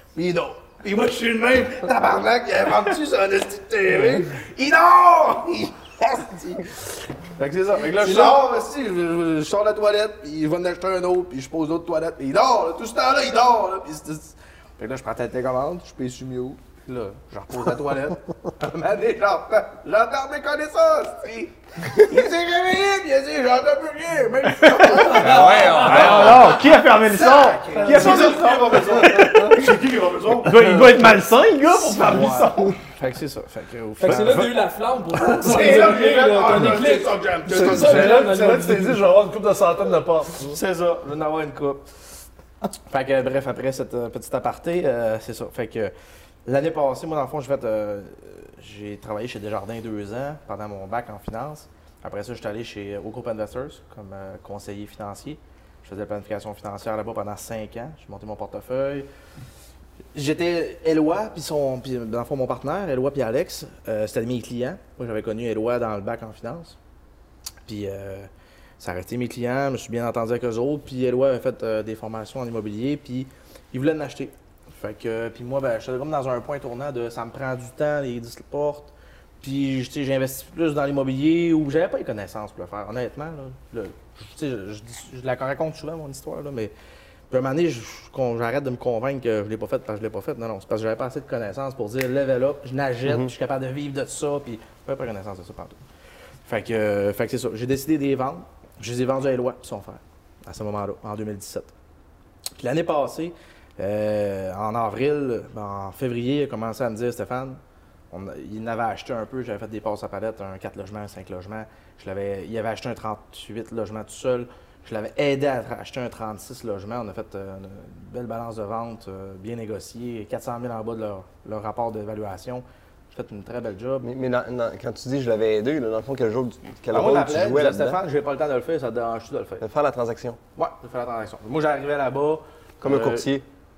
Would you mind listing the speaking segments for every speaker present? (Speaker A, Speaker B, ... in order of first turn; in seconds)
Speaker A: 0.1-29.3, 31.7-34.6, 35.1-38.2, 40.4-41.8, 42.9-45.9, 46.5-59.1, 60.1-66.8, 67.6-86.7, 87.3-95.8, 96.4-101.7, 102.5-107.6, 108.1-124.0, 126.9-129.6, 130.6-133.3
Speaker B: 7.9-8.4, 24.9-26.5, 34.0-39.0
Speaker C: 24.6-29.7, 30.4-32.8
Speaker D: 27.8-31.1, 37.5-40.5
Speaker E: 124.0-128.0, 129.6-130.4, 132.8-133.4